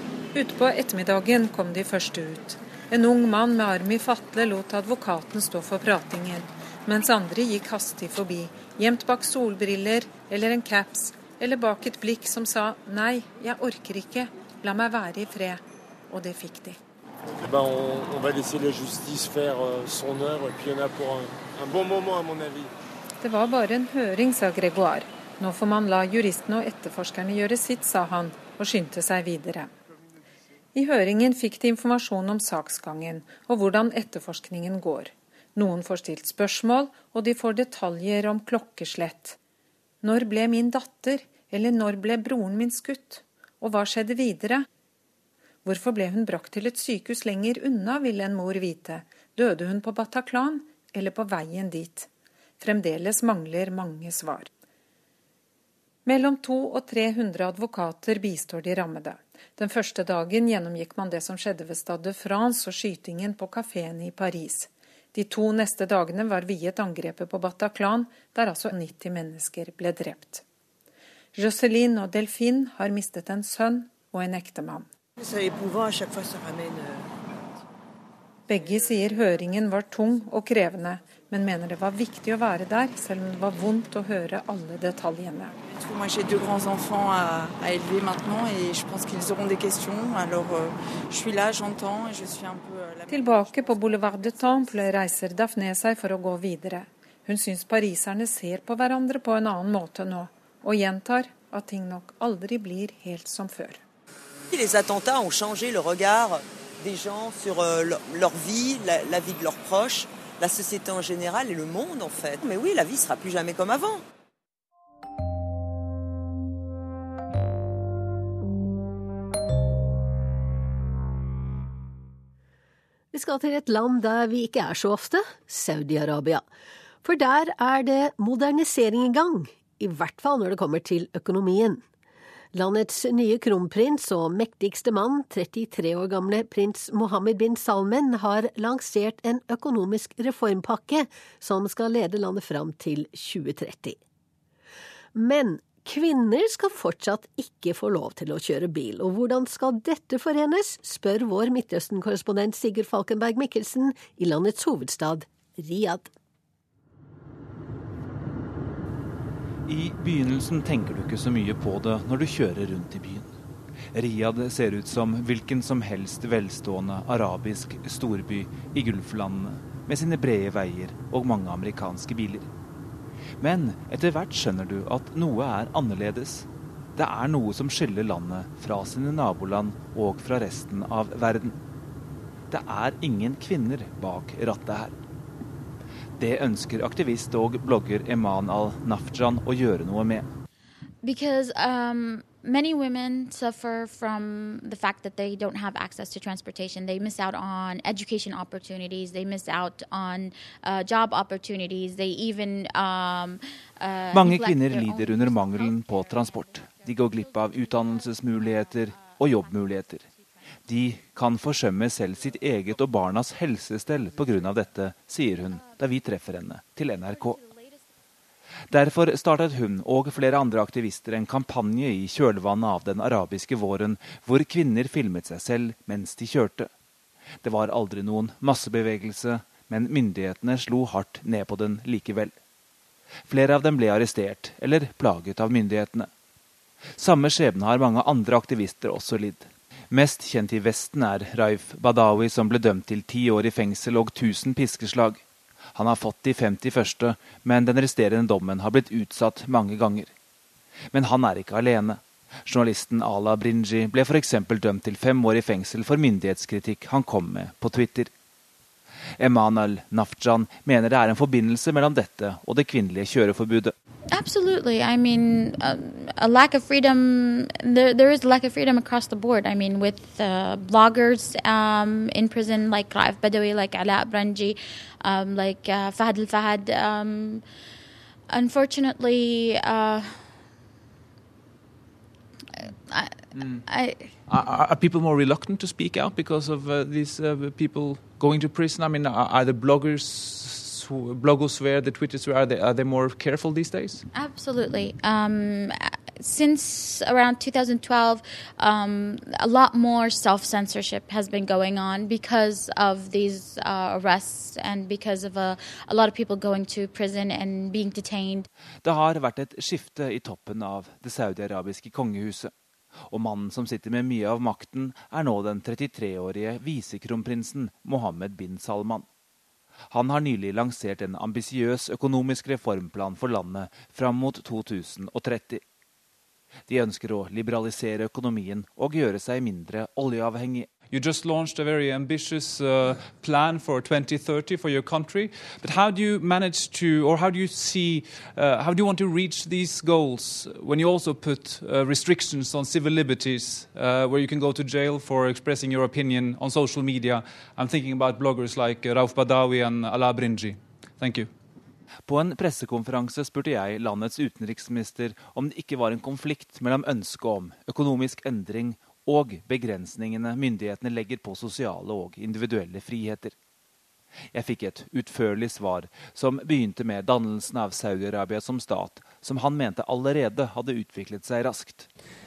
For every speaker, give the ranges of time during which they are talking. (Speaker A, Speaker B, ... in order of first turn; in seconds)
Speaker A: 0.3-16.8, 23.2-29.7, 30.8-39.4, 40.0-44.7, 45.6-52.1, 52.6-54.5, 56.1-70.4, 71.3-74.9, 78.5-85.6, 93.1-103.8
Speaker B: 17.4-22.7
Speaker C: 75.2-77.0, 85.7-94.8
Speaker D: 104.5-114.0
Speaker E: 123.1-126.5, 127.0-131.8, 132.5-144.0, 145.2-156.1
Speaker F: 159.7-163.3, 163.9-172.5, 173.4-181.6, 182.5-184.9, 186.2-190.3, 204.1-210.1, 210.7-217.4, 218.7-226.7, 227.4-232.3, 233.3-236.1, 237.0-245.2, 245.8-250.1, 250.9-258.1, 259.2-263.7, 308.8-312.5, 313.1-319.1, 319.9-325.6, 326.7-330.7, 352.1-363.3, 364.3-371.9
Speaker G: 191.0-205.6, 264.1-277.4, 278.3-280.4, 282.6-284.1, 294.1-308.5
Speaker H: 283.3-283.6, 284.3-294.1, 330.9-351.3